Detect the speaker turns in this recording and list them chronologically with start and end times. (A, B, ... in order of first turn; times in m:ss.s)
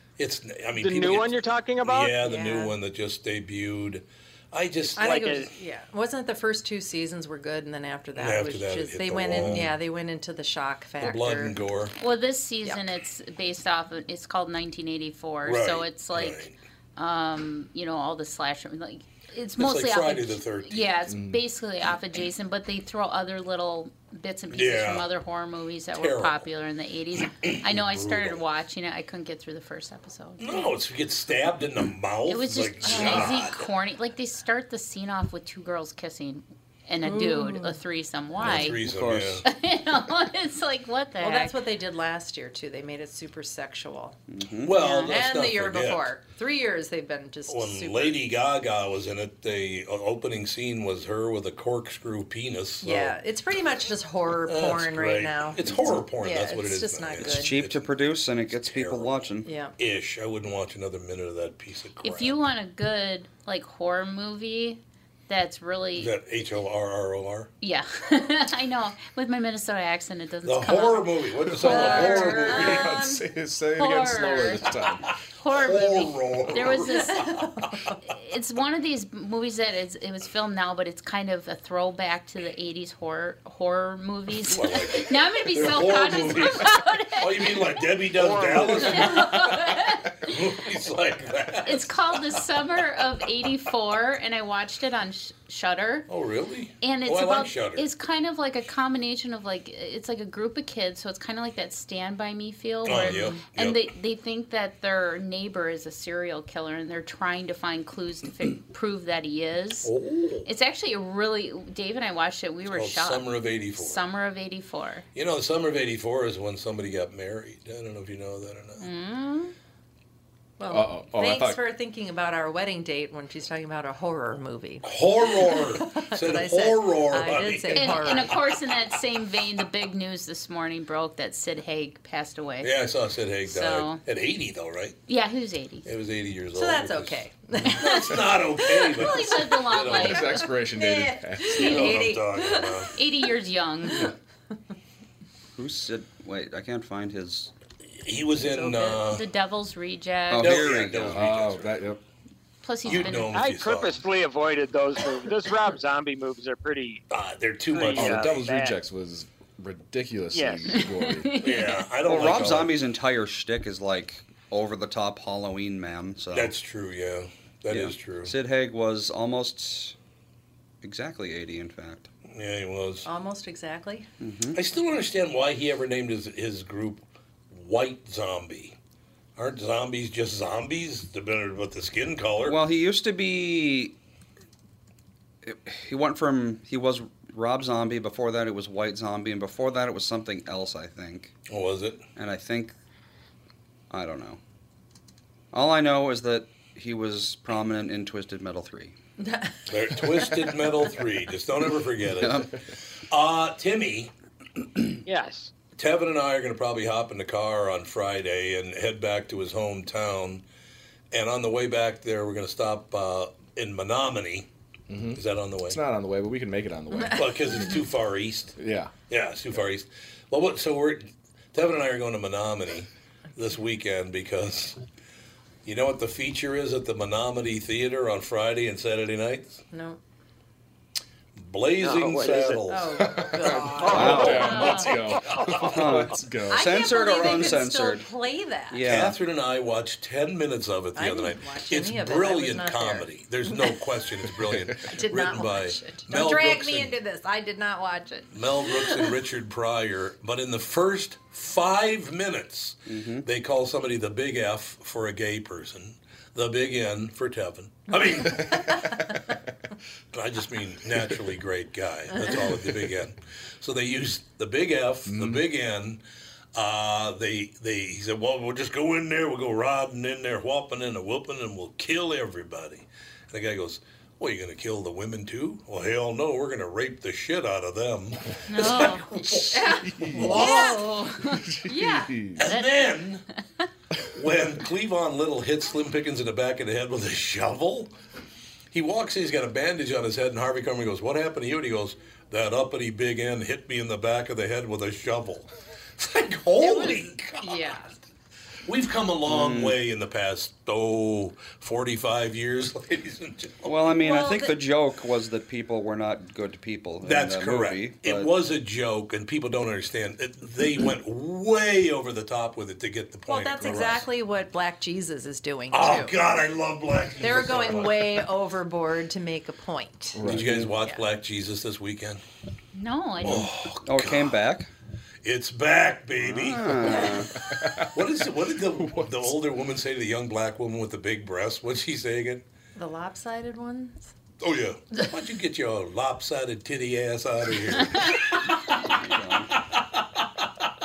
0:00.2-0:05.4 A
0:00.8-0:02.1 B
0:02.2-0:02.7 C
0:05.0-0:11.6 C
0:05.0-0:05.5 B
0:08.2-0:09.8 A
0:11.0-0:12.0 A
0:12.0-0:30.7 D
0:15.4-0:16.5 A
0:19.6-0:20.9 A
0:21.1-0:21.4 E
0:24.5-0:25.1 A
0:25.9-0:26.5 A
0:27.4-0:28.4 A
0:30.4-0:33.7 A
0:32.3-0:38.8 D
0:32.8-0:33.4 C
0:37.0-0:37.8 C
0:38.4-0:39.4 A
0:38.6-0:39.4 F
0:39.4-0:41.5 D
0:41.2-0:44.2 C
0:44.3-0:44.7 F
0:44.6-0:46.1 A
0:44.8-0:45.1 D
0:44.8-0:48.2 C
0:47.5-0:53.2 A
0:52.8-0:57.5 C
0:54.4-0:57.9 A
0:57.2-0:59.5 F
0:58.5-0:59.1 A
0:59.4-0:59.7 C
0:59.8-1:02.4 A
1:02.0-1:06.1 D
1:06.0-1:07.5 A
1:07.6-1:13.0 D
1:10.4-1:13.0 A
1:11.5-1:15.1 E
1:11.6-1:13.2 C
1:13.7-1:14.7 D
1:15.1-1:17.5 A
1:15.4-1:17.3 D
1:16.9-1:18.0 C
1:18.1-1:27.8 D
1:24.4-1:32.0 A
1:28.1-1:29.0 B
1:28.8-1:30.6 D
1:31.6-1:36.1 D
1:36.1-1:37.8 A
1:36.8-1:49.9 D
1:42.8-1:43.8 A
1:49.8-1:50.5 A
1:50.4-1:55.0 D
1:52.7-1:54.0 A
1:55.1-1:58.8 A
1:58.8-1:59.5 D
2:00.6-2:08.4 C
2:00.7-2:01.6 E
2:04.8-2:08.2 A
2:07.7-2:12.7 D
2:12.6-2:15.0 A
2:13.4-2:14.0 D
2:15.1-2:15.9 D
2:15.8-2:20.3 A
2:16.5-2:23.0 C
2:17.7-2:18.2 D
2:19.1-2:20.4 D
2:20.0-2:22.2 E
2:21.5-2:22.9 A
2:21.6-2:22.0 D
2:22.9-2:24.1 D
2:25.6-2:27.5 F
2:28.0-2:29.3 A
2:28.6-2:29.0 C
2:28.9-2:30.6 D
2:30.3-2:31.3 F
2:30.3-2:31.8 A
2:30.9-2:32.0 E
2:32.6-2:33.4 D
2:32.8-2:34.0 A
2:33.2-2:37.0 B
2:37.1-2:38.4 A
2:37.7-2:38.8 B
2:38.0-2:41.3 E
2:40.3-2:40.8 B
2:40.7-2:41.9 D
2:41.4-2:42.8 A
2:42.0-2:46.5 F
2:46.3-2:48.3 A
2:47.7-2:49.9 F
2:50.8-2:52.1 F
2:52.3-2:53.0 A
2:53.0-2:54.1 C
2:54.2-2:54.6 F
2:54.5-2:58.8 A
2:59.4-3:02.6 A
3:02.4-3:03.9 F
3:05.4-3:11.3 F
3:11.5-3:12.0 A
3:12.2-3:12.7 F
3:13.9-3:14.4 F
3:15.5-3:18.9 F
3:19.2-3:20.3 C
3:19.7-3:22.5 A
3:22.2-3:22.5 F
3:23.1-3:24.1 A
3:25.0-3:25.5 B
3:25.7-3:30.4 A
3:31.1-3:34.5 A
3:34.9-3:37.7 E
3:35.1-3:35.8 A
3:37.1-3:38.6 A
3:38.6-3:38.9 E
3:39.1-3:44.8 A
3:45.6-3:49.6 A
3:49.7-3:50.0 C
3:51.4-3:53.0 A
3:51.8-3:52.6 B
3:52.7-3:54.6 C
3:53.0-3:57.4 E
3:53.7-3:55.9 B
3:53.9-3:54.6 F
3:54.5-3:54.9 D
3:55.8-3:58.1 F
3:56.5-3:58.8 C
3:58.7-3:59.2 F
3:58.8-4:06.9 A
4:00.9-4:03.7 C
4:04.8-4:09.1 C
4:08.3-4:19.0 A
4:12.9-4:13.2 F
4:18.3-4:19.1 C
4:20.1-4:26.0 A
4:25.1-4:25.4 E
4:26.5-4:40.9 A
4:38.5-4:39.2 D
4:39.5-4:41.0 C
4:39.8-4:40.5 E
4:40.2-4:41.5 D
4:41.3-4:42.4 E
4:41.6-4:42.3 C
4:42.4-4:43.2 A
4:42.4-4:43.6 D
4:44.1-4:47.9 A
4:48.7-4:57.8 A
4:56.6-4:57.9 C
4:58.6-5:03.8 A
4:59.3-4:59.8 F
5:03.6-5:08.3 F
5:04.0-5:04.5 C
5:07.0-5:14.0 A
5:13.3-5:16.2 C
5:15.7-5:18.2 A
5:17.2-5:20.2 C
5:20.2-5:20.7 E
5:20.2-5:22.2 A
5:22.7-5:23.5 D
5:23.2-5:24.4 A
5:23.2-5:24.7 F
5:25.2-5:27.2 A
5:26.2-5:27.4 F
5:26.9-5:28.0 E
5:27.9-5:32.4 A
5:28.8-5:29.3 E
5:32.8-5:34.1 C
5:34.4-5:38.9 A
5:38.9-5:39.5 F
5:39.5-5:40.5 A